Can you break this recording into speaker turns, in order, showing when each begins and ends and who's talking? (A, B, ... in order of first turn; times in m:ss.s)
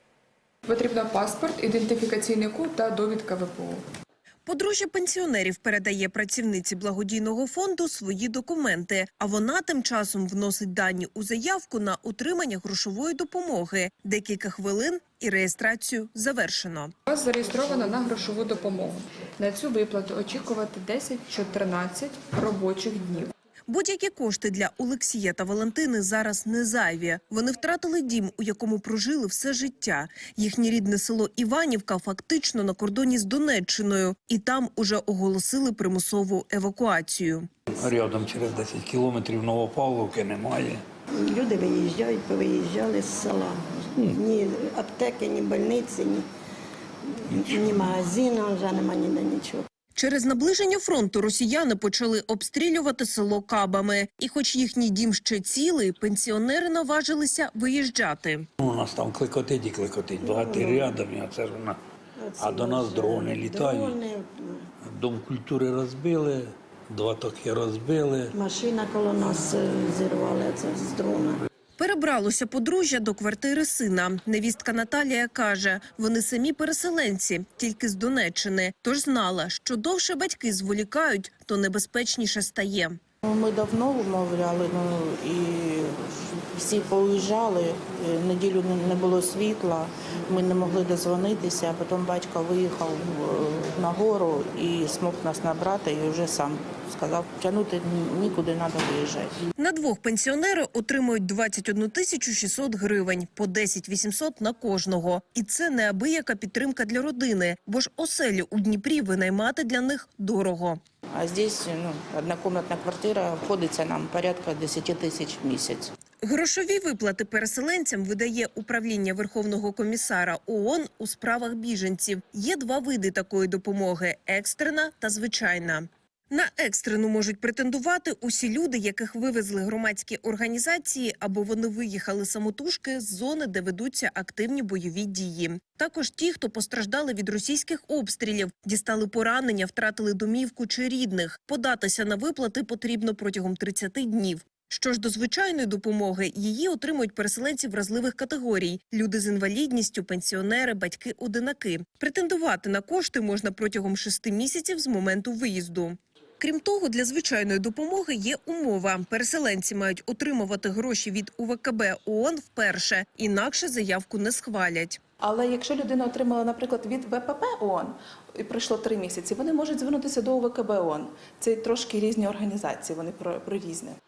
0:00.6-0:03.8 A
0:04.4-0:16.9 B
0:17.1-0:23.3 A
0:23.7-0:37.5 B
0:37.7-0:40.8 C
0:41.2-0:46.2 D
0:47.2-0:49.6 D
0:50.0-0:58.4 B
0:58.6-1:01.8 C
1:00.2-1:00.9 D
1:02.2-1:04.7 D
1:02.4-1:04.0 C
1:04.8-1:08.3 C
1:08.3-1:11.4 D
1:11.8-1:23.0 B
1:23.2-1:39.4 E
1:39.6-1:50.8 B
1:51.1-1:55.9 E
1:56.2-2:45.0 B
2:45.2-2:54.0 F